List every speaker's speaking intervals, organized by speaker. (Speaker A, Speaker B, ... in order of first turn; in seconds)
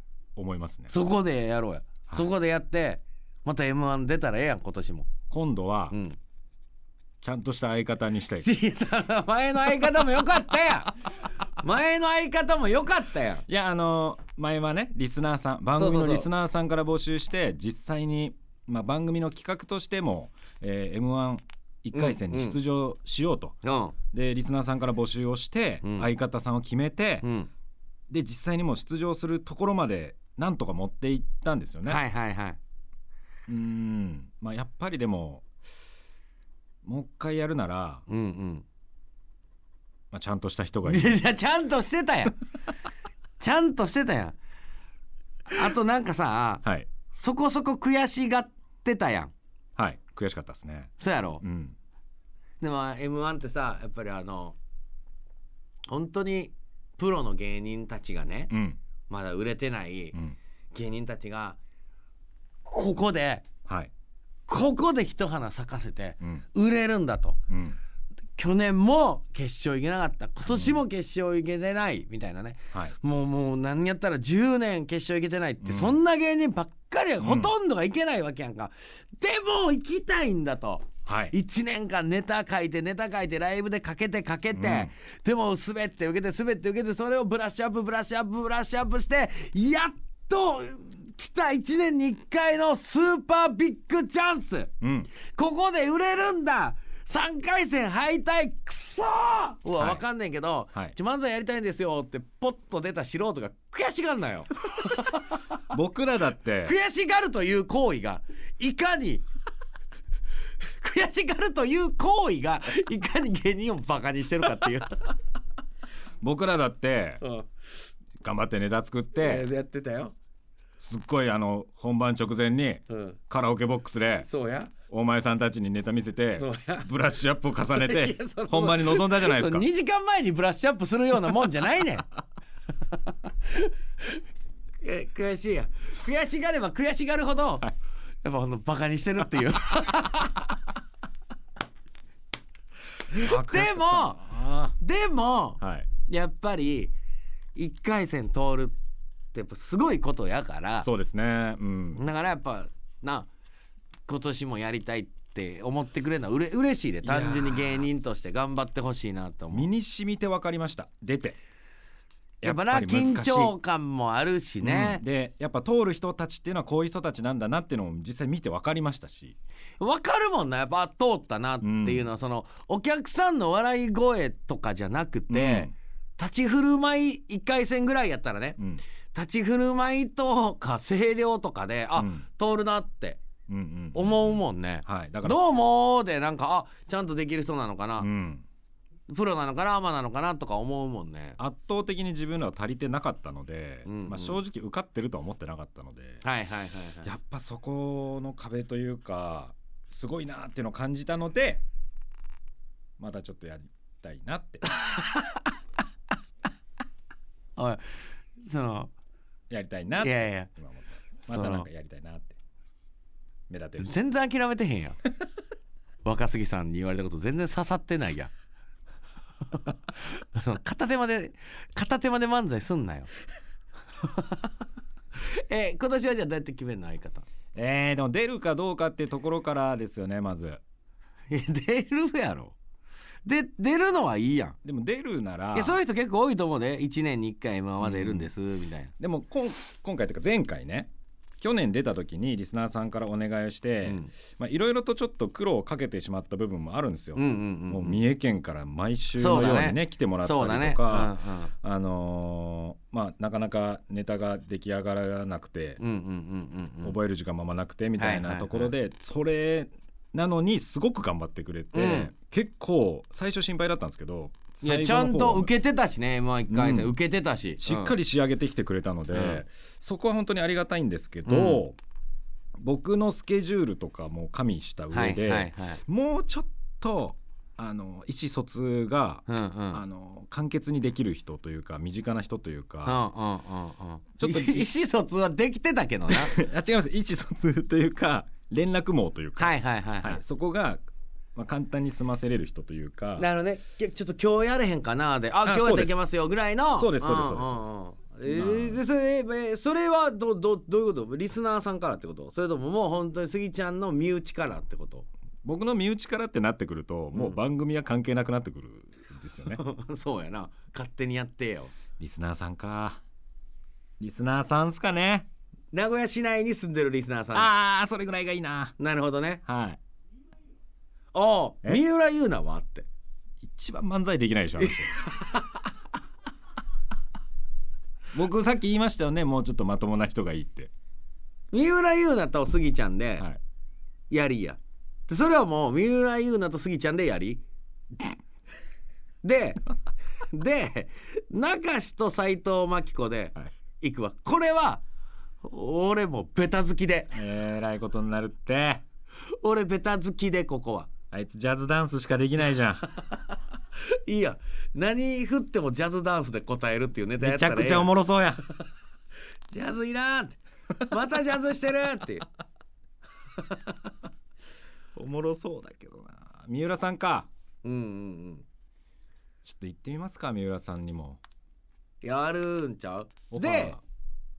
Speaker A: 0.4-0.9, 5.3-6.0, 7.2-8.5, 13.5-23.6, 24.1-27.3, 28.1-32.0, 33.5-35.5, 36.8-38.0, 40.1-41.2, 49.8-51.8, 58.5-58.8, 63.7-63.9, 67.5-67.8, 70.5-70.8, 75.6-76.0, 77.2-77.5, 81.1-81.3, 84.5-84.9, 94.8-95.1, 105.7-106.7, 116.2-117.2, 118.2-119.5, 120.8-124.3, 124.9-129.7, 143.1-144.8, 145.6-145.9, 150.8-152.0, 157.0-157.9, 159.5-161.4, 162.4-163.5, 164.6-169.4, 171.6-172.1, 175.3-175.7, 181.9-182.2, 183.5-185.6, 188.0-188.4, 191.4-196.2, 197.0-201.6, 203.0-204.7, 209.5-212.4, 213.5-213.9, 227.6-230.6, 234.6-235.8, 237.8-238.3, 239.0-240.9, 241.4-255.8, 256.8-265.5, 266.5-266.9, 267.6-271.8, 272.6-283.0, 284.2-284.7, 286.1-290.8, 291.4-293.3, 295.4-296.0, 296.7-297.7, 298.3-298.8, 305.4-309.6, 312.0-313.0, 314.0-315.3, 317.3-318.8, 319.5-319.8, 323.4-324.9, 328.1-330.7, 347.1-348.8, 351.1-352.9, 357.2-358.4, 364.9-367.3, 369.4-371.2, 373.3-373.8
Speaker B: 0.9-5.1, 5.9-6.2, 8.4-11.0, 11.6-13.4, 15.8-16.3, 21.9-22.6, 23.6-23.9, 25.8-26.1, 27.2-27.5, 31.9-32.6, 38.1-38.6, 40.9-42.4, 43.4-44.4, 45.5-49.3, 51.0-51.4, 52.6-54.6, 55.9-58.5, 59.1-60.2, 60.7-61.6, 62.6-63.5, 64.5-67.4, 68.4-105.4, 106.6-109.2, 110.8-115.2, 117.2-117.5, 119.2-120.2, 122.9-123.2, 124.2-124.7, 126.4-126.9, 127.7-132.1, 132.9-134.2, 134.8-137.7, 138.2-140.6, 143.1-146.9, 147.6-148.7, 149.3-150.9, 151.9-153.3, 154.1-159.7, 162.4-165.0, 169.8-178.6, 179.1-183.2, 183.9-188.1, 189.1-191.4, 193.9-194.4, 196.2-197.1, 204.7-205.4, 207.6-208.9, 210.0-210.5, 211.3-211.7, 213.8-215.0, 216.1-218.3, 219.6-223.1, 224.0-224.5, 225.2-227.2, 231.3-232.6, 233.2-234.6, 235.5-238.9, 243.8-244.1, 247.2-248.0, 249.2-251.5, 255.8-257.0, 258.0-258.7, 261.7-262.1, 264.6-267.9, 269.1-269.4, 271.3-271.6, 274.9-275.8, 279.3-279.8, 282.9-286.4, 289.4-290.2, 293.2-305.1, 307.1-307.4, 309.5-311.7, 315.7-317.5, 318.8-319.4, 321.1-322.9, 324.6-325.6, 331.5-333.3, 334.1-337.4, 339.2-339.6, 340.3-344.8, 345.4-347.2, 349.4-350.9, 353.8-357.9, 359.5-362.2, 363.4-363.9, 367.6-368.5, 372.0-373.8